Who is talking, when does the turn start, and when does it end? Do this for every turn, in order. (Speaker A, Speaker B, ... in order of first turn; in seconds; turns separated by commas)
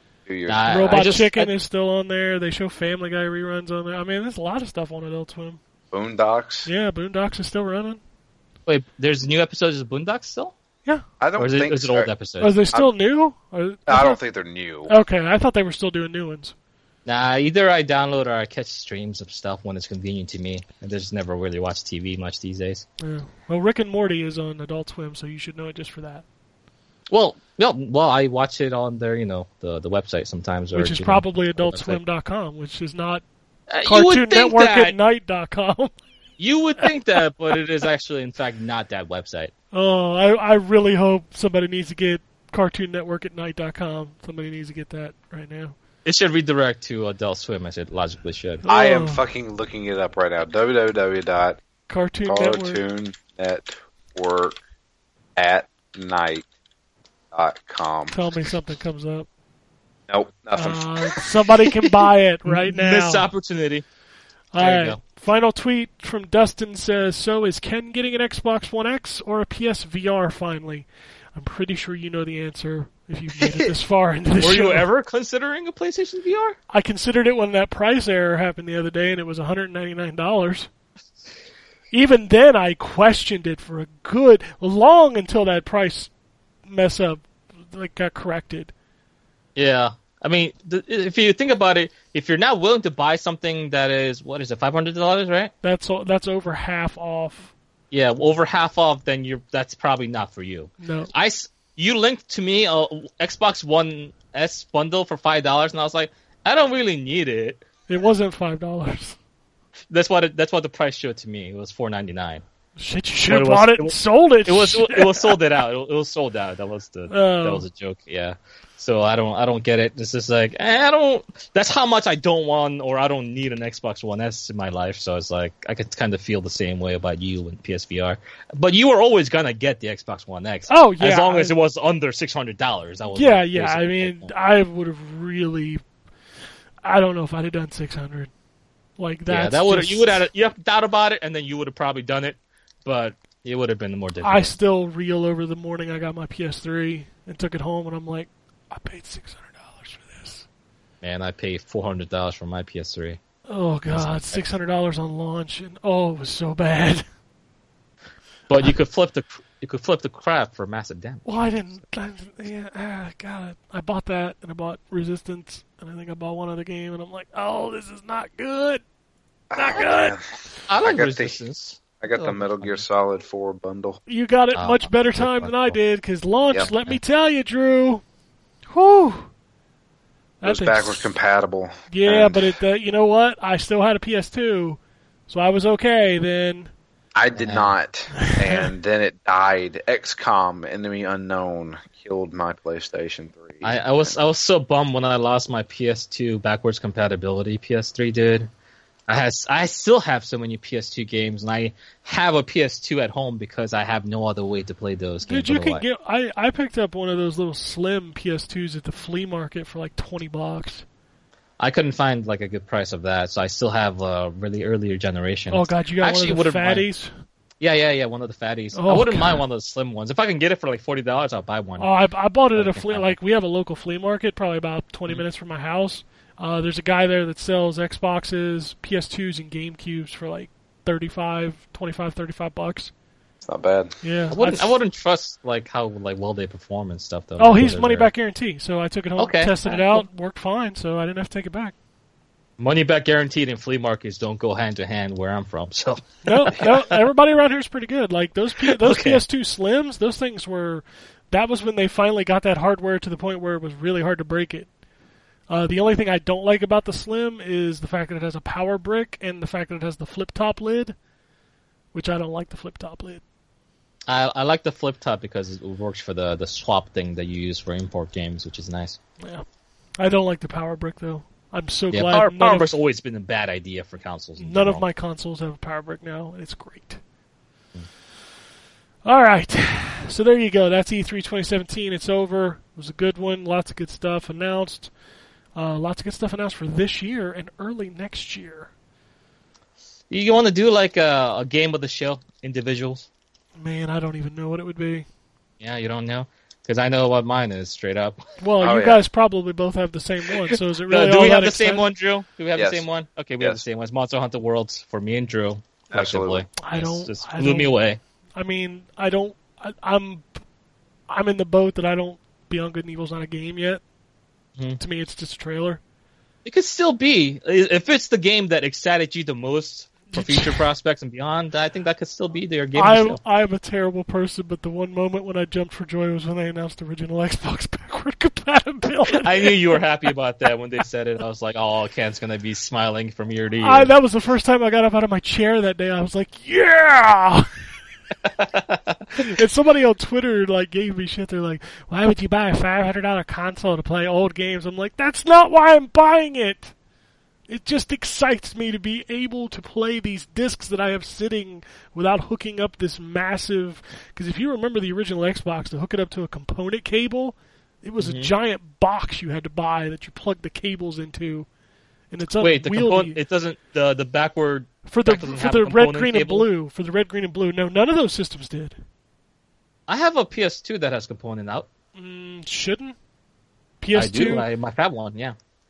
Speaker A: 0.3-1.0, Speaker B: 0.5-1.5, Speaker C: 0.7-5.6, Speaker A: 5.9-6.7, Speaker C: 6.6-8.0, Speaker B: 8.7-10.5, Speaker A: 11.2-12.1, Speaker B: 11.4-12.6, Speaker C: 12.4-14.2, Speaker A: 13.9-14.9, Speaker C: 14.9-16.5, Speaker B: 17.1-22.9, Speaker C: 23.0-26.2, Speaker B: 27.1-32.0, Speaker C: 30.7-33.2, Speaker B: 33.7-35.0, Speaker C: 33.8-35.9, Speaker B: 36.4-39.5, Speaker C: 39.7-45.7, Speaker B: 46.0-48.6, Speaker C: 48.6-49.2, Speaker A: 48.7-51.6, Speaker C: 51.9-52.8, Speaker A: 52.2-54.6, Speaker A: 55.4-56.4, Speaker A: 57.3-58.2, Speaker C: 58.1-59.3, Speaker A: 60.1-61.2, Speaker C: 60.5-63.3, Speaker B: 62.5-63.8, Speaker C: 64.5-74.9, Speaker B: 64.6-65.0, Speaker B: 74.4-76.6, Speaker C: 76.7-80.7, Speaker C: 81.9-86.1, Speaker C: 86.7-88.7, Speaker B: 89.5-95.5, Speaker C: 95.6-97.5, Speaker B: 97.9-107.6, Speaker C: 100.8-101.1, Speaker C: 107.9-109.2, Speaker B: 109.9-112.4, Speaker C: 112.8-115.3, Speaker B: 113.3-134.3, Speaker C: 117.1-117.6, Speaker C: 130.7-131.5, Speaker C: 133.1-135.8, Speaker C: 136.8-138.3, Speaker C: 139.0-140.2, Speaker B: 139.3-144.5, Speaker C: 144.2-150.5, Speaker B: 151.0-153.2, Speaker C: 153.5-157.0, Speaker B: 153.9-154.4, Speaker B: 158.5-161.5, Speaker C: 161.2-168.8, Speaker A: 169.5-171.4, Speaker C: 169.5-170.2, Speaker B: 170.7-172.8, Speaker A: 172.0-174.0, Speaker C: 174.1-178.0, Speaker B: 174.5-175.8, Speaker B: 176.6-177.0, Speaker C: 178.7-179.3, Speaker C: 180.4-181.1, Speaker A: 180.4-182.5, Speaker C: 181.9-186.7, Speaker A: 187.1-194.1, Speaker B: 187.4-187.7, Speaker C: 188.2-188.6, Speaker B: 193.6-198.5, Speaker B: 199.1-205.8, Speaker C: 205.2-210.8, Speaker B: 211.6-216.8, Speaker C: 215.5-217.1, Speaker B: 217.6-221.9, Speaker C: 218.7-219.4, Speaker C: 221.8-232.9, Speaker B: 222.5-223.1, Speaker A: 233.4-233.9, Speaker C: 234.0-234.8, Speaker B: 234.3-238.1, Speaker C: 237.4-241.7, Speaker B: 239.2-240.0, Speaker B: 242.6-247.0, Speaker C: 246.2-254.7, Speaker B: 248.7-249.2, Speaker C: 255.5-260.9, Speaker C: 261.9-263.2, Speaker B: 264.1-269.0, Speaker C: 270.0-272.7, Speaker B: 271.9-274.8, Speaker C: 274.4-277.0, Speaker C: 279.0-284.9, Speaker C: 285.5-288.7, Speaker B: 290.1-293.1, Speaker C: 293.6-295.1, Speaker B: 295.6-298.2, Speaker C: 298.4-301.9, Speaker A: 298.6-299.0, Speaker B: 300.9-308.0, Speaker A: 302.6-302.8, Speaker A: 305.9-306.4, Speaker C: 306.6-307.8, Speaker C: 308.4-310.2, Speaker C: 311.1-313.8, Speaker C: 314.8-315.8, Speaker B: 316.4-323.2, Speaker C: 320.1-320.6, Speaker C: 322.7-329.8, Speaker B: 329.1-333.9, Speaker C: 333.6-337.5, Speaker B: 338.4-339.0, Speaker C: 339.2-346.7, Speaker C: 347.5-361.5, Speaker B: 358.0-358.3, Speaker C: 362.1-363.2, Speaker B: 362.4-366.5, Speaker C: 364.9-368.8, Speaker B: 369.9-371.7, Speaker C: 371.9-372.9, Speaker C: 373.8-374.4, Speaker B: 373.9-375.4